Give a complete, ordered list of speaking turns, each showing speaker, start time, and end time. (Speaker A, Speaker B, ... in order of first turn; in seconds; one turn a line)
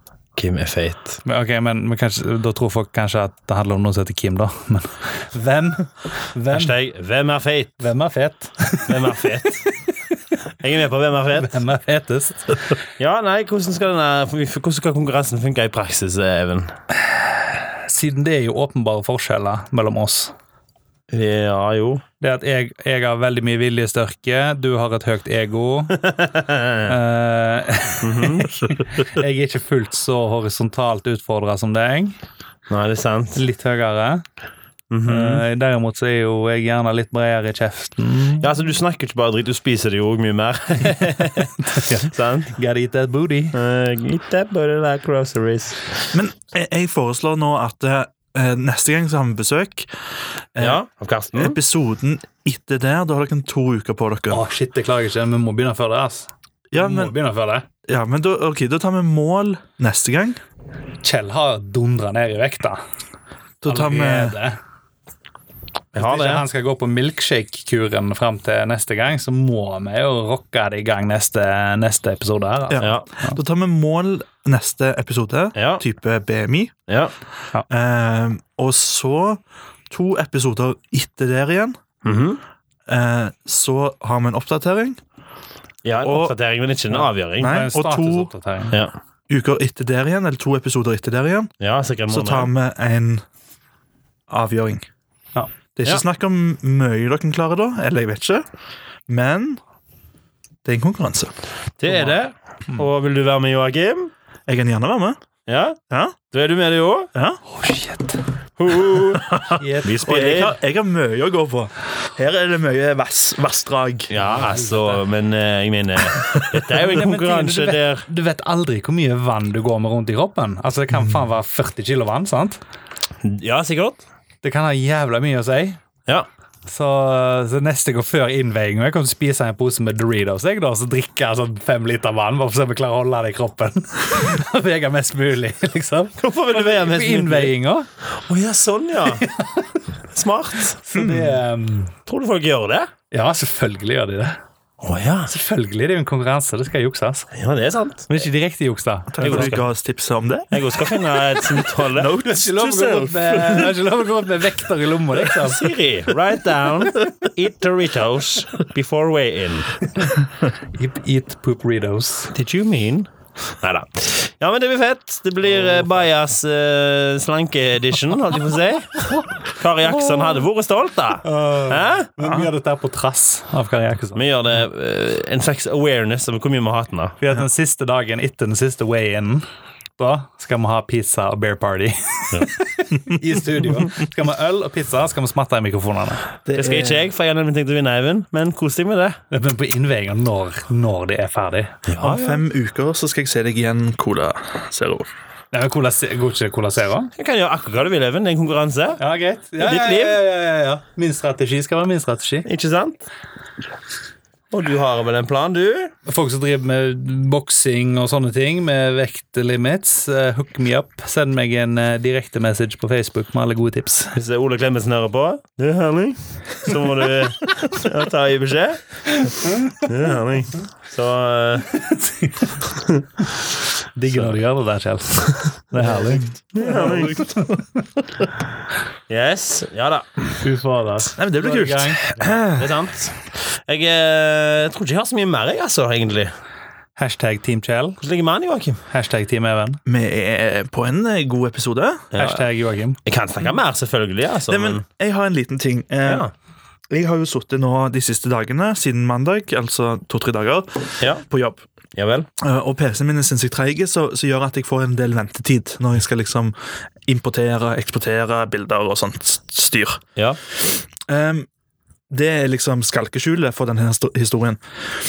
Speaker A: 0.3-1.2
Speaker B: 1.2-6.7
Speaker A: 6.5-7.8
Speaker B: 7.8-9.2
Speaker A: 8.9-9.7
Speaker A: 10.6-11.6
Speaker B: 11.4-12.7
Speaker A: 13.0-16.7
Speaker B: 17.1-20.3
Speaker A: 21.1-22.0
Speaker B: 22.2-26.0
Speaker A: 26.0-26.9
Speaker B: 26.9-32.2
Speaker A: 28.0-28.6
Speaker A: 32.7-33.4
Speaker B: 33.3-34.2
Speaker A: 34.9-35.4
Speaker B: 35.0-38.5
Speaker A: 38.4-42.5
Speaker B: 41.6-43.5
Speaker A: 43.5-46.0
Speaker C: 46.1-49.9
Speaker C: 50.5-50.8
Speaker A: 50.6-51.6
Speaker C: 51.3-54.4
Speaker B: 54.3-57.6
Speaker C: 56.7-57.1
Speaker C: 57.9-60.4
Speaker B: 61.0-62.8
Speaker C: 63.6-64.4
Speaker B: 63.6-64.6
Speaker A: 65.9-66.4
Speaker B: 65.9-73.4
Speaker C: 72.7-76.8
Speaker A: 72.8-73.0
Speaker A: 75.5-75.8
Speaker A: 76.9-77.1
Speaker C: 77.7-81.8
Speaker A: 82.0-82.4
Speaker C: 82.9-85.0
Speaker A: 85.8-87.6
Speaker C: 86.0-86.3
Speaker B: 86.9-88.8
Speaker C: 87.4-88.3
Speaker C: 89.3-91.5
Speaker A: 91.6-92.5
Speaker C: 92.1-93.2
Speaker C: 94.3-94.8
Speaker C: 95.8-98.4
Speaker C: 99.1-99.6
Speaker C: 100.6-101.3
Speaker A: 101.8-104.1
Speaker B: 101.9-102.1
Speaker C: 104.5-105.2
Speaker A: 105.5-105.8
Speaker C: 105.9-106.1
Speaker A: 106.3-107.1
Speaker C: 107.1-107.4
Speaker B: 107.5-108.2
Speaker A: 108.6-109.3
Speaker C: 109.2-114.1
Speaker B: 109.6-110.1
Speaker A: 109.8-110.5
Speaker A: 114.1-118.0
Speaker B: 114.2-115.0
Speaker B: 116.7-122.6
Speaker A: 123.2-124.0
Speaker B: 124.4-125.8
Speaker B: 126.7-137.9
Speaker A: 136.2-137.5
Speaker A: 138.0-139.3
Speaker B: 139.1-139.8
Speaker A: 140.1-140.8
Speaker B: 140.8-141.9
Speaker C: 140.9-141.4
Speaker A: 142.1-142.9
Speaker B: 143.1-144.4
Speaker A: 144.8-145.3
Speaker B: 145.3-147.3
Speaker A: 147.3-148.2
Speaker B: 148.1-149.6
Speaker C: 149.1-150.5
Speaker A: 149.2-149.6
Speaker A: 150.5-152.1
Speaker C: 151.8-153.7
Speaker B: 152.2-155.7
Speaker A: 155.3-159.8
Speaker B: 160.7-162.3
Speaker A: 162.3-163.1
Speaker A: 163.6-172.1
Speaker B: 171.2-174.2
Speaker C: 172.2-172.5
Speaker A: 174.1-177.2
Speaker B: 177.2-179.4
Speaker B: 180.0-186.2
Speaker C: 186.4-187.1
Speaker A: 186.5-189.2
Speaker B: 189.3-191.8
Speaker A: 191.9-192.4
Speaker C: 192.0-195.1
Speaker B: 195.5-197.1
Speaker A: 197.2-199.0
Speaker B: 199.0-202.5
Speaker A: 199.6-200.2
Speaker A: 202.4-203.1
Speaker A: 204.5-205.9
Speaker B: 206.1-214.1
Speaker A: 214.1-219.0
Speaker A: 219.8-221.8
Speaker B: 221.8-222.5
Speaker A: 222.8-223.0
Speaker B: 223.9-227.4
Speaker A: 224.1-224.4
Speaker A: 226.5-227.2
Speaker C: 226.6-227.6
Speaker A: 229.1-230.3
Speaker B: 230.4-232.0
Speaker C: 231.2-232.8
Speaker A: 232.2-236.3
Speaker B: 236.9-238.0
Speaker A: 238.0-238.8
Speaker B: 238.9-239.8
Speaker C: 239.8-242.1
Speaker A: 242.1-242.5
Speaker B: 242.2-243.0
Speaker A: 243.0-244.8
Speaker C: 244.5-246.2
Speaker A: 246.1-246.3
Speaker C: 246.9-251.6
Speaker A: 251.0-251.2
Speaker A: 251.9-252.3
Speaker C: 252.4-256.5
Speaker C: 257.0-260.0
Speaker C: 260.6-261.5
Speaker C: 262.1-264.6